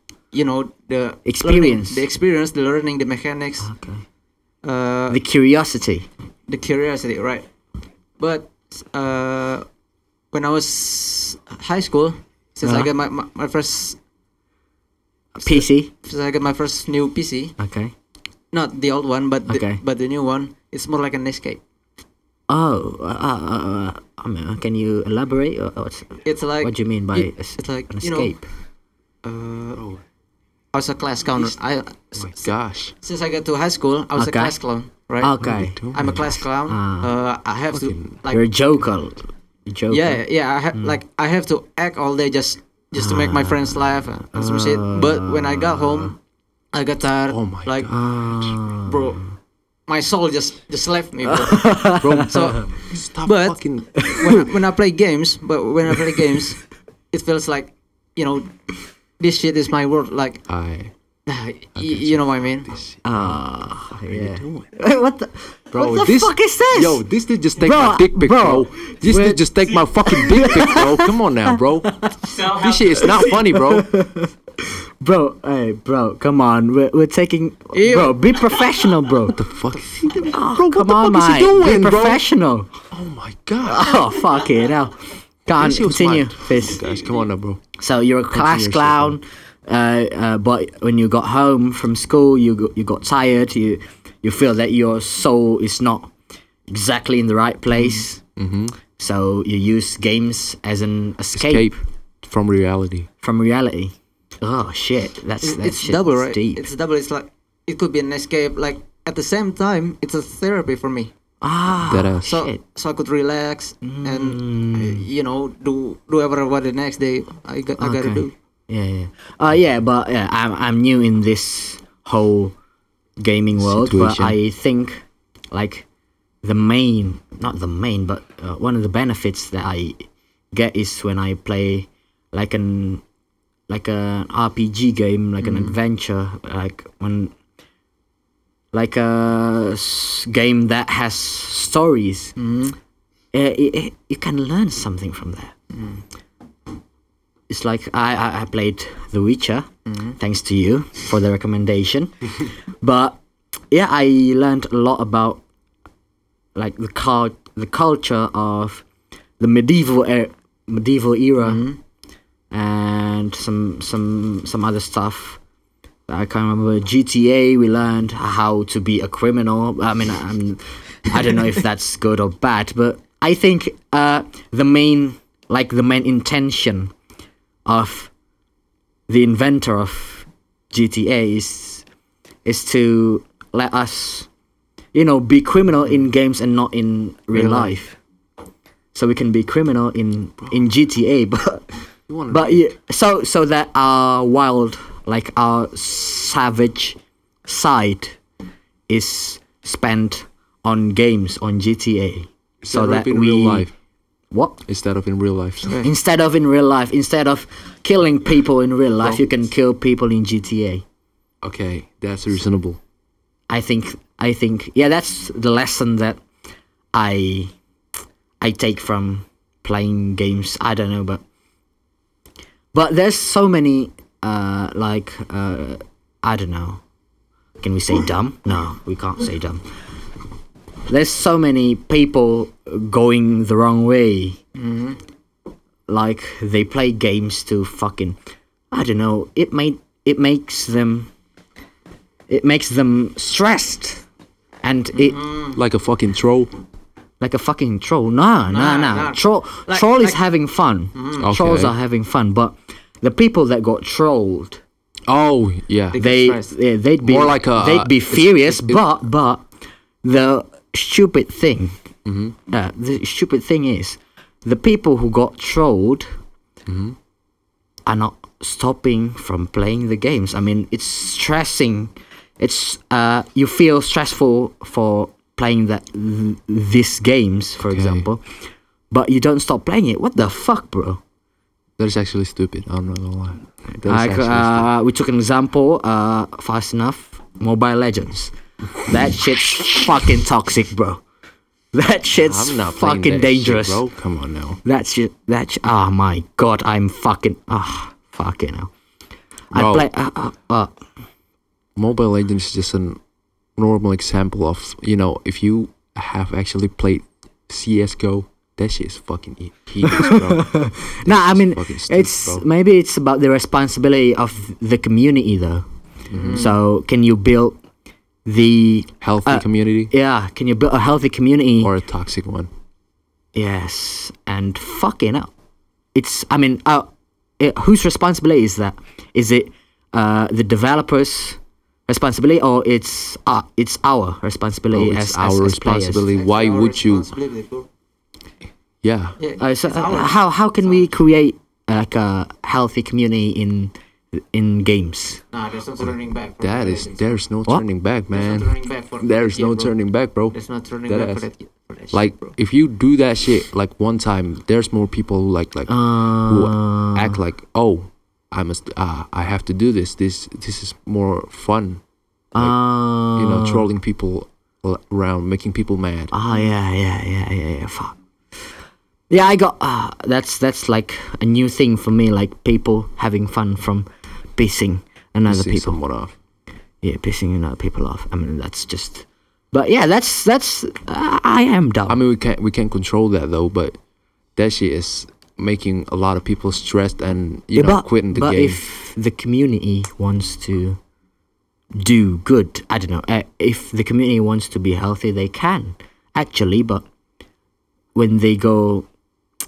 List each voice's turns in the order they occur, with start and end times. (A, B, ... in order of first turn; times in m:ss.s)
0:00.3-0:03.7 A
0:01.2-0:02.0 B
0:03.6-0:04.0 B
0:04.6-0:05.2 A
0:05.1-0:06.1 B
0:06.5-0:07.5 A
0:08.2-0:09.7 A
0:10.3-0:14.0 A
0:12.6-0:12.9 B
0:15.4-0:15.9 B
0:15.4-0:17.5 A
0:17.6-0:17.9 B
0:18.5-0:21.6 A
0:19.5-0:19.8 B
0:22.5-0:28.5 B
0:26.2-0:28.3 A
0:29.2-0:29.8 A
0:29.7-0:30.0 C
0:30.7-0:35.4 A
0:32.2-0:32.9 C
0:34.2-0:34.6 B
0:35.2-0:37.1 B
0:35.4-0:36.2 C
0:35.9-0:38.4 A
0:37.7-0:38.2 C
0:38.3-0:40.2 B
0:39.9-0:46.2 A
0:43.0-0:46.1 B
0:46.7-0:47.9 A
0:47.3-0:48.5 C
0:47.9-0:49.2 B
0:48.8-0:49.2 A
0:49.9-0:52.7 A
0:51.3-0:52.4 B
0:52.0-0:54.2 C
0:53.2-0:56.6 A
0:54.0-0:54.3 B
0:57.1-0:58.5 A
0:59.2-1:00.4 A
1:00.5-1:00.9 C
1:01.3-1:02.7 A
1:01.8-1:03.4 C
1:03.0-1:07.0 B
1:04.0-1:04.7 C
1:05.7-1:13.9 C
1:07.6-1:19.4 B
1:17.7-1:18.3 A
1:19.3-1:22.2 C
1:20.2-1:22.7 B
1:22.9-1:24.0 C
1:23.6-1:26.8 B
1:25.6-1:27.6 C
1:27.8-1:36.1 B
1:28.3-1:29.2 C
1:36.7-1:38.2 B
1:38.4-1:38.8 C
1:39.0-1:41.8 B
1:41.4-1:43.1 C
1:43.2-1:46.7 B
1:45.4-1:51.1 A
1:51.4-1:52.6 B
1:51.9-1:52.3 C
1:52.2-1:58.3 A
1:53.8-1:55.0 B
1:57.8-2:02.5 B
2:03.2-2:05.9 B
2:03.6-2:04.4 C
2:06.4-2:13.0 B
2:13.7-2:17.3 B
2:15.4-2:15.7 A
2:18.7-2:22.3 B
2:22.4-2:22.8 A
2:23.3-2:25.5 B
2:25.7-2:26.0 A
2:27.5-2:33.2 B
2:29.9-2:30.2 A
2:33.7-2:35.4 B
2:36.5-2:38.8 B
2:39.4-2:41.6 B
2:41.4-2:41.8 A
2:42.5-2:45.4 B
2:46.1-2:56.9 B
2:57.6-2:58.1 B
2:59.1-3:01.8 B
3:02.4-3:04.3 B
3:04.9-3:08.0 B
3:07.3-3:07.7 A
3:08.9-3:18.2 B
3:12.1-3:12.7 C
3:18.9-3:23.7 B
3:22.6-3:23.7 C
3:24.3-3:24.6 B
3:24.7-3:25.8 C
3:25.8-3:30.8 B
3:31.4-3:32.8 C
3:33.5-3:36.2 B
3:36.9-3:37.5 B
3:38.4-3:41.2 B
3:42.7-3:46.8 B
3:47.6-3:49.7 B
3:50.9-3:54.4 B
3:54.6-3:55.0 A
3:55.9-3:58.2 B
3:58.7-4:01.1 B
4:02.3-4:04.0 B
4:04.6-4:05.2 B
4:05.0-4:05.6 A
4:05.5-4:06.5 C
4:07.2-4:14.6 B
4:08.5-4:10.2 A
4:11.0-4:11.3 A
4:11.2-4:11.8 C
4:15.1-4:16.0 C
4:15.9-4:16.5 A
4:16.0-4:19.5 B
4:17.0-4:18.9 C
4:20.0-4:21.8 B
4:22.0-4:22.4 C
4:22.5-4:26.1 B
4:26.7-4:27.0 C
4:27.9-4:38.2 B
4:37.7-4:38.0 C
4:38.9-4:41.0 B
4:41.8-4:44.7 C
4:43.8-4:51.0 B
4:51.7-4:53.9 B
4:52.2-4:54.6 C
4:54.6-4:58.7 B
4:59.5-5:00.7 B
4:59.5-4:59.9 C
5:01.8-5:03.0 C
5:03.6-5:12.4 C
5:09.8-5:15.6 B
5:16.1-5:16.5 C
5:16.1-5:16.5 A
5:16.3-5:17.6 B
5:18.2-5:21.7 B
5:19.0-5:19.9 C
5:21.6-5:22.5 C
5:23.4-5:25.3 B
5:25.9-5:36.1 B
5:34.7-5:37.1 C
5:36.1-5:37.7 A
5:38.8-5:39.2 C
5:39.2-5:40.8 A
5:39.4-5:45.2 B
5:45.3-5:47.1 A
5:46.4-5:50.4 C
5:48.1-5:49.7 A
5:50.3-5:52.3 A
5:50.9-5:51.2 C
5:51.9-6:01.8 C
5:55.7-5:57.2 B
6:02.3-6:03.7 B
6:03.1-6:06.1 C
6:06.1-6:08.0 B
6:09.1-6:15.8 B
6:15.3-6:16.1 C
6:16.8-6:22.0 B
6:21.9-6:23.8 C
6:24.4-6:28.6 C
6:27.5-6:30.8 B
6:31.8-6:36.8 B
6:38.0-6:38.9 B